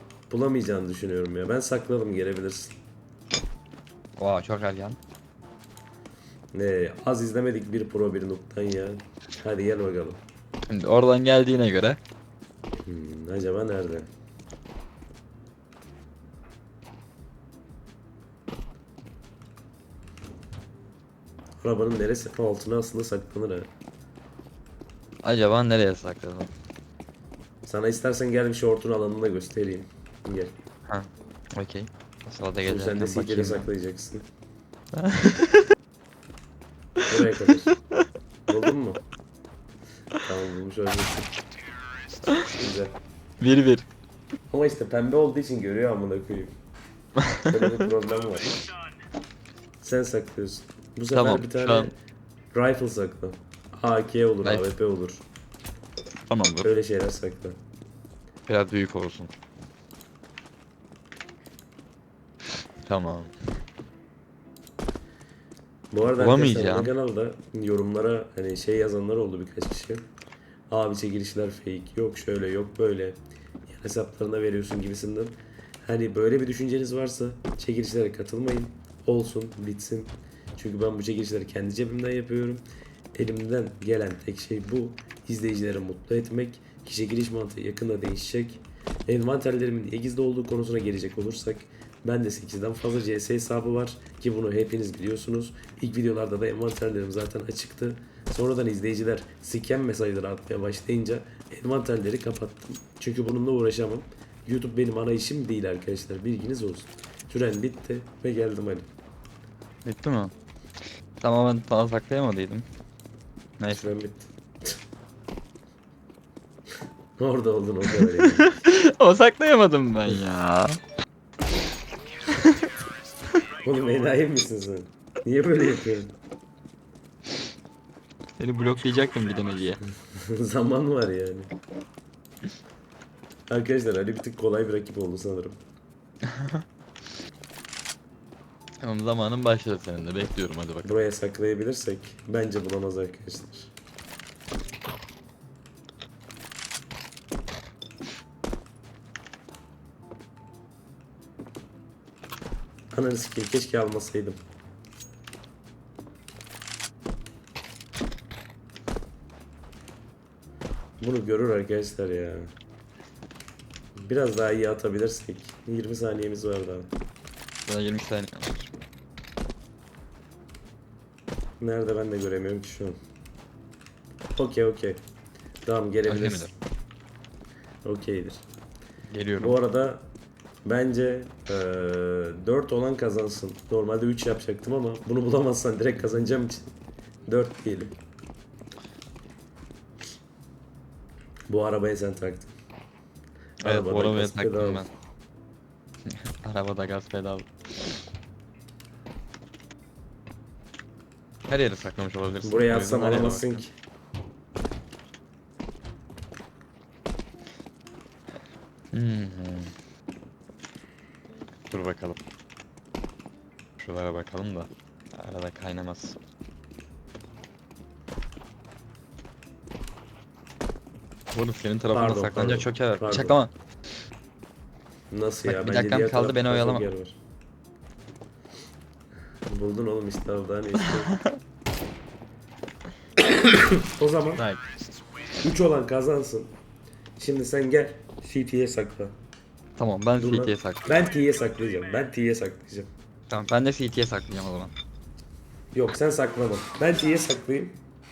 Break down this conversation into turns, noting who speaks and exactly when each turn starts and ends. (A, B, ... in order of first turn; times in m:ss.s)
0:00.3-0:02.8 A
0:04.2-0:05.0 B
0:06.5-0:10.2 A
0:10.7-0:12.0 B
0:12.8-0:14.1 A
0:21.6-0:23.7 A
0:25.2-0:26.5 B
0:27.6-0:30.5 A
0:30.9-0:33.7 B
0:32.6-0:34.2 A
0:35.0-0:35.6 B
0:37.1-0:37.7 A
0:38.5-0:39.0 A
0:40.2-0:41.3 A
0:42.5-0:42.9 A
0:43.4-0:43.8 B
0:44.5-0:46.5 A
0:47.4-0:48.6 A
0:49.8-0:52.0 A
0:51.1-0:51.9 B
0:52.5-0:55.2 A
0:56.3-0:56.7 B
0:56.6-0:57.6 A
0:58.5-0:59.3 B
1:02.8-1:03.3 B
1:05.9-1:10.0 A
1:06.1-1:06.9 B
1:10.7-1:48.9 A
1:49.8-1:50.3 B
1:51.2-1:52.6 B
1:53.6-1:53.9 B
1:53.7-1:54.7 A
1:57.2-1:58.5 A
1:57.9-2:00.8 B
2:03.6-2:06.1 A
2:08.4-2:09.8 B
2:10.3-2:11.5 A
2:13.5-2:15.6 A
2:16.3-2:16.6 B
2:18.8-2:21.0 B
2:20.8-2:23.7 A
2:32.9-2:34.4 A
2:41.0-2:42.5 A
2:44.0-2:46.9 A
2:47.6-2:48.7 B
2:51.6-2:53.0 A
2:54.3-2:55.0 A
2:55.6-2:56.5 A
2:56.1-2:56.5 B
2:57.8-2:58.4 A
2:59.1-2:59.6 B
2:59.4-3:00.1 A
3:00.6-3:06.7 A
3:07.2-3:08.0 A
3:11.5-3:12.5 A
3:13.6-3:14.9 B
3:13.6-3:14.9 A
3:16.1-3:18.0 B
3:21.5-3:23.6 B
3:22.4-3:23.7 A
3:28.9-3:29.7 B
3:31.7-3:32.2 B
3:33.8-3:36.2 B
3:41.3-3:43.5 B
3:41.9-3:43.4 A
3:45.1-3:47.2 A
3:45.4-3:46.9 B
3:49.5-3:51.1 A
3:51.1-3:51.4 B
3:53.9-3:54.4 A
3:54.4-3:54.6 B
3:55.4-3:56.5 A
3:57.2-3:59.2 A
3:59.8-4:00.8 B
4:00.2-4:02.9 A
4:03.3-4:04.7 B
4:05.7-4:07.8 A